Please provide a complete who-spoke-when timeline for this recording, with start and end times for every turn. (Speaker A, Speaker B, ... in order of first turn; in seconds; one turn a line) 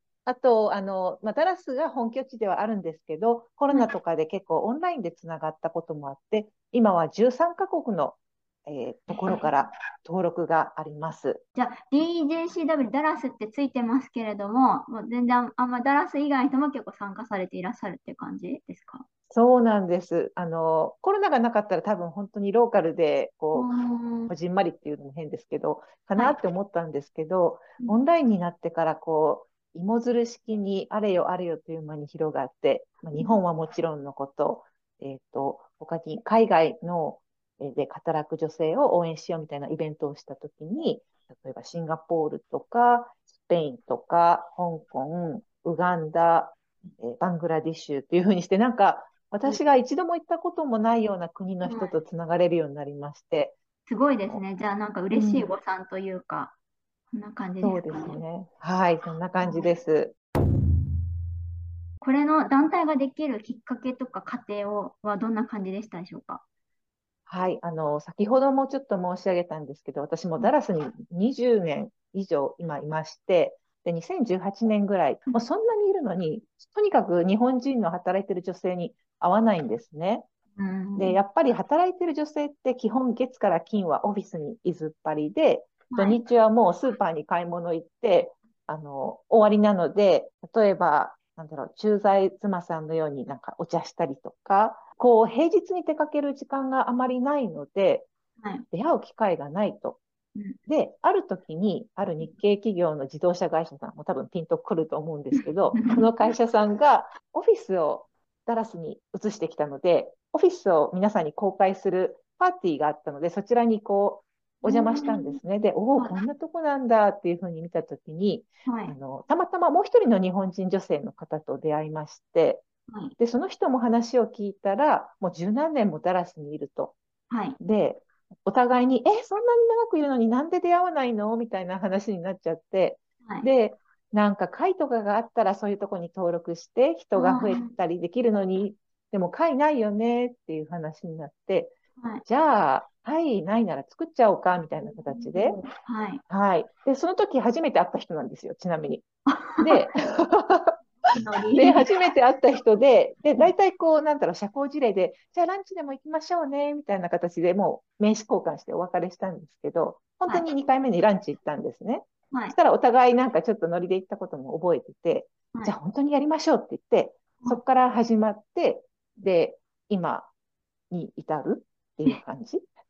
Speaker A: 0.2-11.4
Speaker B: 11.5-19.0
Speaker A: 19.3-23.7
Speaker B: 23.5-24.3
Speaker A: 24.3-53.5
Speaker B: 51.6-51.9
Speaker B: 53.9-56.5
Speaker A: 55.1-55.5
Speaker B: 57.1-58.2
Speaker A: 57.6-60.1
Speaker B: 59.4-59.7
Speaker B: 62.0-66.4
Speaker A: 67.3-80.3
Speaker B: 80.5-81.2
Speaker A: 81.0-98.1
Speaker B: 85.9-86.2
Speaker A: 98.7-100.0
Speaker A: 100.7-122.6
Speaker B: 105.8-106.0
Speaker B: 114.6-115.4
Speaker B: 118.7-119.0
Speaker B: 122.9-123.1
Speaker A: 123.2-126.9
Speaker B: 127.3-127.6
Speaker A: 127.6-145.6
Speaker B: 137.1-137.7
Speaker B: 145.1-146.2
Speaker A: 146.3-149.1
Speaker B: 149.3-149.8
Speaker A: 149.6-150.8
Speaker B: 151.1-151.9
Speaker A: 151.5-170.3
Speaker A: 170.9-172.7